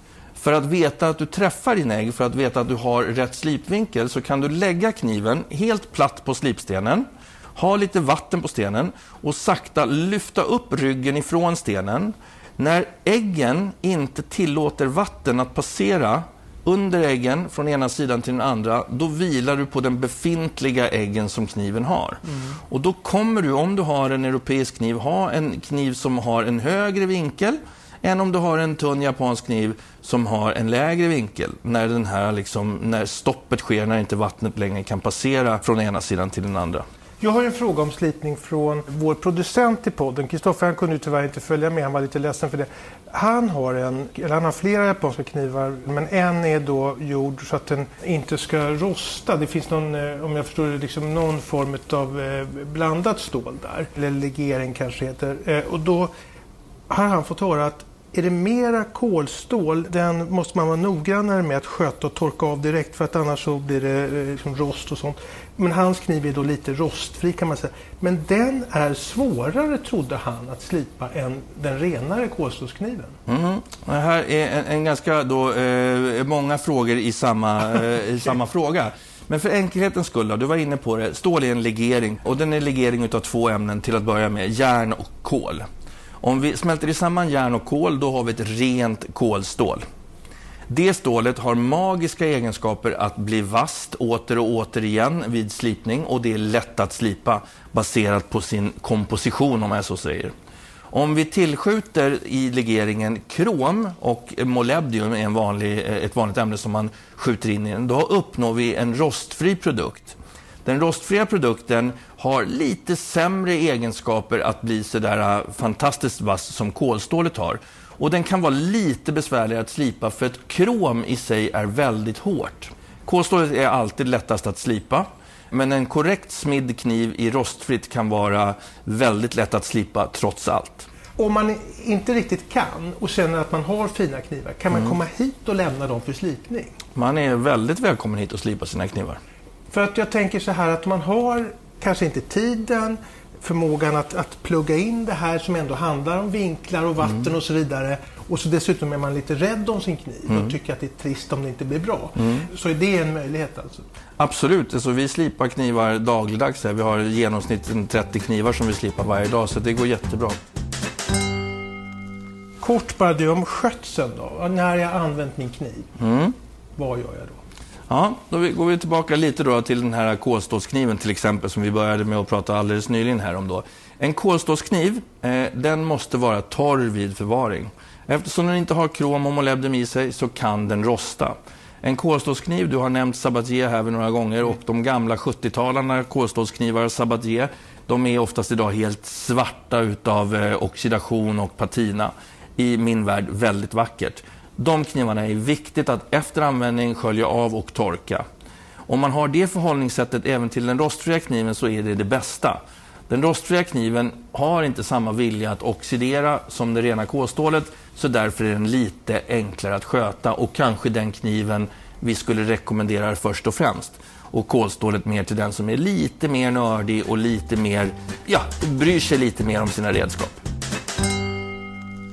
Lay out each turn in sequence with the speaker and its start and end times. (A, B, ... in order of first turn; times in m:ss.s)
0:00.4-0:36.8 A
0:37.2-0:56.1 B
0:56.9-1:13.2 B
1:13.3-1:25.6 A
1:26.2-1:29.8 A
1:30.7-1:40.3 A
1:40.9-2:10.9 A
2:11.2-2:16.7 B
2:17.0-2:19.2 A
2:19.7-2:33.9 B
2:32.2-2:32.5 A
2:34.2-2:40.4 A
2:42.6-2:45.9 B
2:46.0-2:46.4 A
2:46.8-2:47.4 B
2:47.9-3:18.2 A
3:18.9-3:40.4 A